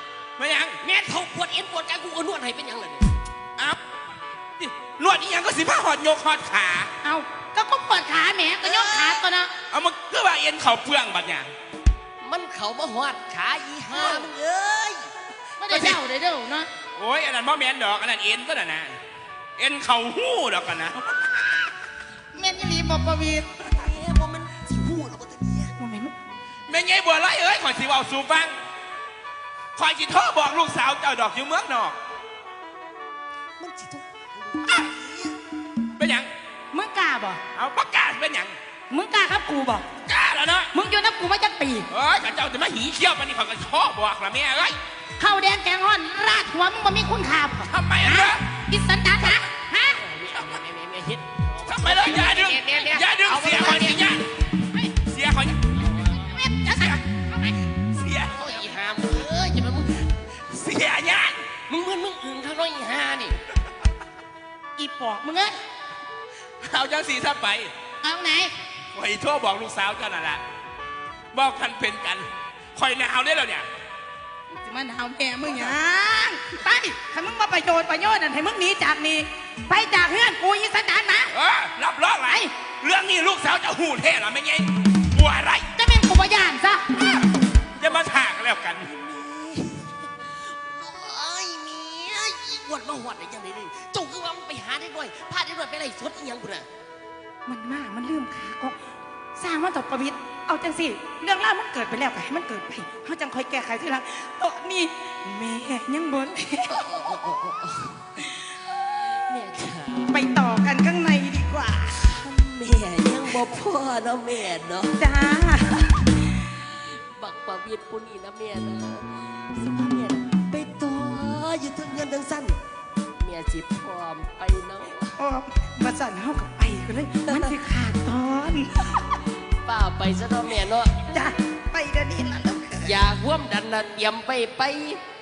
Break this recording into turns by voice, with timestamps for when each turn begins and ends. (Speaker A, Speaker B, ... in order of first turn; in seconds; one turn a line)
Speaker A: 0.4-0.8
Speaker B: 0.8-3.1
Speaker A: 4.6-6.9
Speaker C: 7.0-9.5
Speaker B: 8.6-9.2
Speaker A: 9.7-11.5
Speaker B: 12.2-15.1
Speaker C: 13.9-14.3
Speaker C: 15.6-16.7
Speaker A: 15.7-16.0
Speaker A: 16.9-19.0
Speaker A: 19.6-21.4
Speaker C: 22.3-23.5
Speaker B: 23.6-25.7
Speaker C: 25.8-26.1
Speaker A: 26.7-28.6
Speaker A: 29.8-32.0
Speaker B: 33.6-35.3
Speaker A: 36.0-36.3
Speaker C: 36.7-37.4
Speaker A: 37.5-38.5
Speaker C: 38.9-39.9
Speaker A: 40.0-40.7
Speaker C: 40.7-41.9
Speaker A: 41.9-44.8
Speaker C: 45.2-50.0
Speaker A: 47.7-48.4
Speaker B: 49.9-54.2
Speaker A: 50.3-50.6
Speaker A: 51.6-54.3
Speaker A: 55.0-55.6
Speaker B: 55.7-56.4
Speaker C: 56.1-57.6
Speaker A: 57.9-58.5
Speaker B: 58.3-60.1
Speaker A: 60.5-61.5
Speaker B: 61.7-63.4
Speaker C: 64.8-65.6
Speaker A: 66.6-67.7
Speaker C: 68.0-68.5
Speaker A: 68.9-70.4
Speaker A: 71.3-73.7
Speaker C: 74.5-81.3
Speaker A: 81.3-85.7
Speaker C: 85.8-86.9
Speaker A: 87.0-88.9
Speaker B: 88.8-96.7
Speaker C: 97.5-98.8
Speaker C: 99.4-106.8
Speaker B: 106.7-110.2
Speaker C: 110.1-112.0
Speaker B: 112.0-115.0
Speaker C: 115.0-116.2
Speaker B: 116.5-122.6
Speaker B: 123.2-125.2
Speaker C: 125.2-128.9
Speaker B: 127.3-127.5
Speaker B: 129.6-130.9
Speaker C: 131.1-133.0
Speaker B: 132.8-135.0